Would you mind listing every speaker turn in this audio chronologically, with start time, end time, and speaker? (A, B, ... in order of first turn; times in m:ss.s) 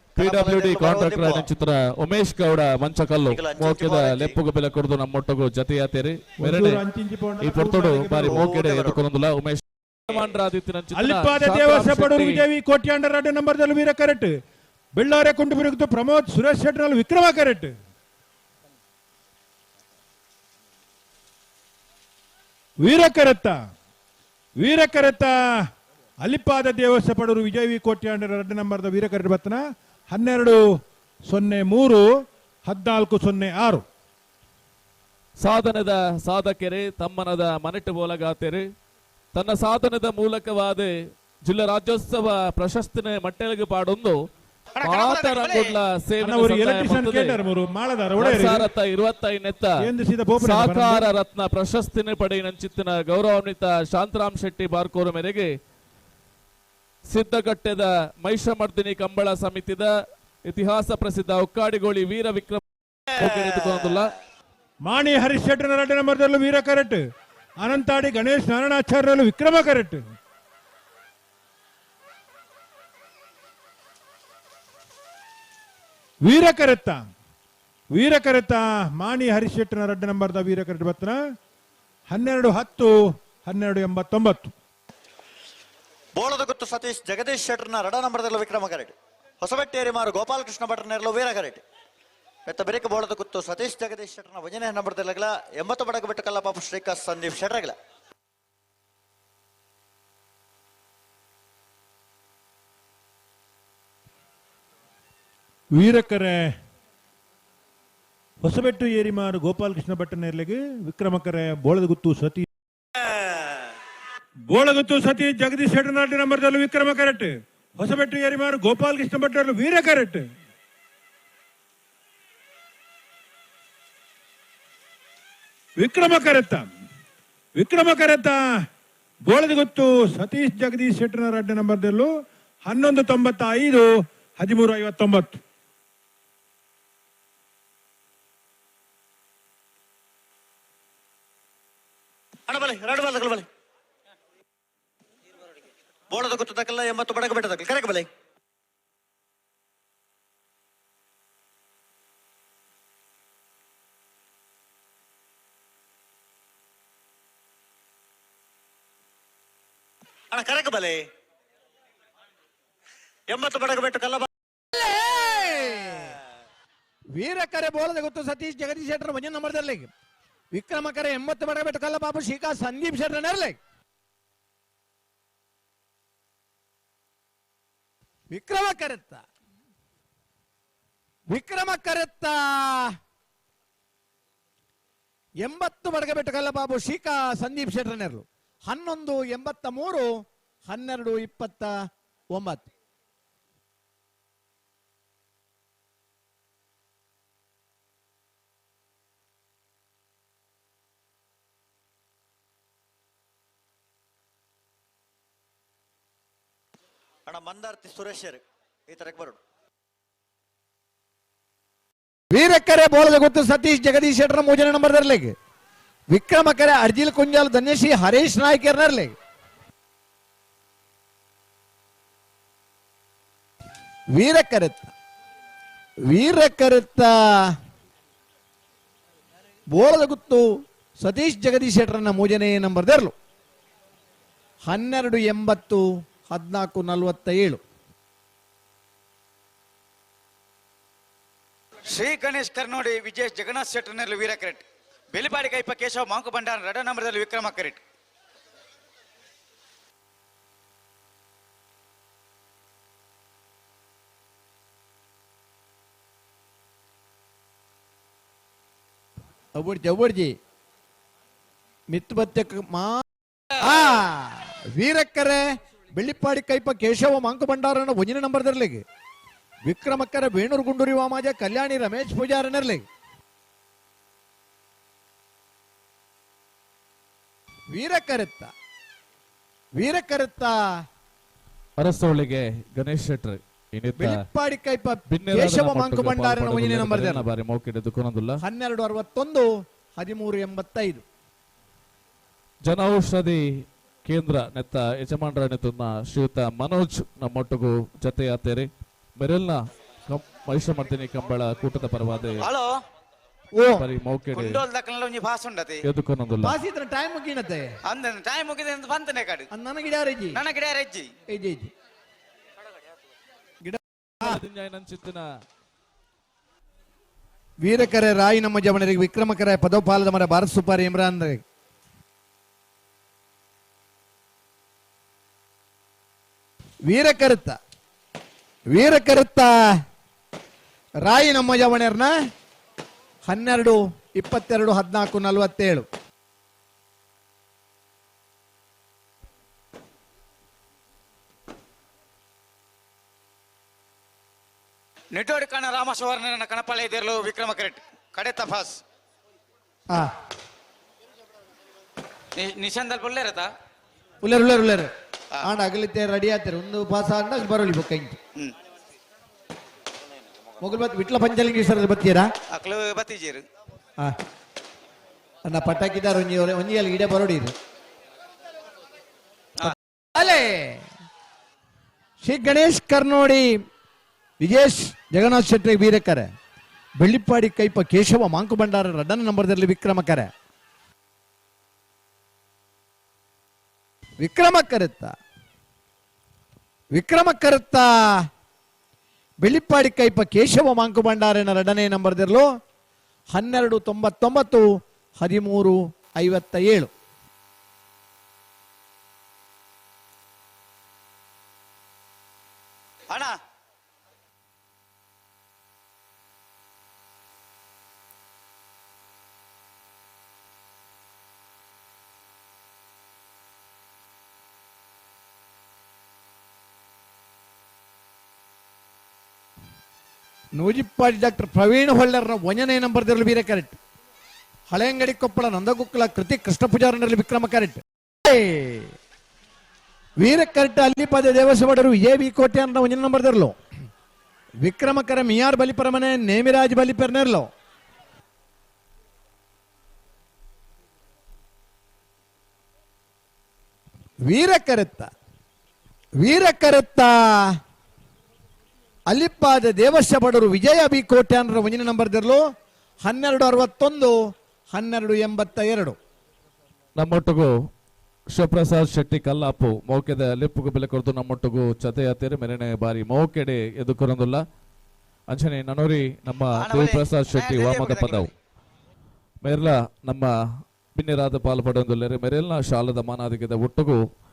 0:00.2-0:01.5 A
0:00.2-0:06.8 B
0:03.3-0:04.3 A
0:06.4-0:08.6 C
0:07.4-0:12.4 B
0:08.3-0:09.0 A
0:10.9-0:14.3 C
0:14.9-0:17.7 C
0:22.8-0:23.5 C
0:24.6-0:25.4 C
0:26.2-0:30.6 C
0:31.2-0:32.0 C
0:32.6-0:33.8 C
0:35.4-0:38.6 B
0:39.3-0:40.9 B
0:41.4-0:44.2 B
0:44.8-0:45.8 D
0:44.8-0:47.4 B
0:46.2-0:48.7 C
0:48.2-0:49.7 B
0:49.8-0:51.1 C
0:50.4-0:55.5 B
0:57.1-0:59.9 B
1:00.4-1:02.6 B
1:03.2-1:04.1 B
1:04.8-1:07.0 C
1:07.6-1:10.0 C
1:16.2-1:17.0 C
1:17.9-1:21.2 C
1:22.1-1:24.5 C
1:26.2-1:31.6 A
1:32.4-1:37.7 A
1:45.7-1:46.5 C
1:48.4-1:52.5 C
1:53.0-1:53.6 A
1:54.5-2:00.2 C
2:05.8-2:06.7 C
2:07.6-2:08.4 C
2:09.2-2:12.1 C
2:12.6-2:15.4 C
2:22.5-2:23.4 A
2:26.1-2:28.1 A
2:40.3-2:41.0 A
2:43.3-2:44.3 A
2:44.7-2:46.2 E
2:47.1-2:49.9 E
2:50.5-2:53.6 E
2:58.3-2:59.2 E
3:01.3-3:02.9 E
3:05.4-3:11.7 E
3:12.3-3:12.7 E
3:27.3-3:29.4 A
3:32.3-3:35.3 E
3:36.1-3:39.1 E
3:44.2-3:44.9 E
3:46.1-3:47.6 E
3:49.7-3:53.1 E
3:54.6-3:57.6 E
4:01.9-4:07.8 D
4:19.5-4:20.3 E
4:21.9-4:25.4 E
4:26.0-4:28.8 E
4:29.7-4:32.8 E
4:37.7-4:38.5 E
4:39.8-4:40.6 E
4:41.8-4:44.2 B
4:44.0-4:47.2 E
4:45.1-4:48.4 B
4:48.4-4:51.0 E
4:52.6-4:53.4 B
4:54.0-5:02.4 B
5:02.4-5:02.7 D
5:03.6-5:03.9 E
5:03.8-5:04.6 B
5:04.3-5:05.8 D
5:05.8-5:06.6 B
5:06.4-5:07.7 E
5:07.9-5:09.5 D
5:09.5-5:10.4 E
5:10.3-5:11.1 D
5:11.3-5:11.7 E
5:13.6-5:14.4 E
5:14.2-5:15.2 B
5:17.6-5:21.4 E
5:26.9-5:27.6 E
5:28.7-5:29.8 E
5:31.0-5:32.1 E
5:33.2-5:35.8 E
5:45.1-5:48.8 D
5:52.4-5:53.5 D
5:54.2-5:58.2 E
6:00.6-6:02.3 E
6:02.5-6:03.4 D
6:05.4-6:07.5 E
6:09.6-6:10.8 E
6:12.2-6:13.6 E
6:14.4-6:16.3 E
6:17.0-6:20.3 E
6:24.2-6:25.1 E
6:26.9-6:28.2 E
6:29.4-6:32.5 E
6:33.3-6:36.9 E
6:43.1-6:43.3 D
7:00.6-7:03.8 E
7:04.7-7:08.9 E
7:10.2-7:13.5 E
7:14.6-7:17.5 E
7:24.3-7:25.1 E
7:26.2-7:27.6 E
7:29.1-7:32.4 E
7:33.0-7:36.0 E
7:37.0-7:37.5 B
7:38.3-7:44.4 B
7:45.3-7:48.3 B
7:46.5-7:48.3 D
7:49.4-7:50.3 B
7:50.9-7:54.0 B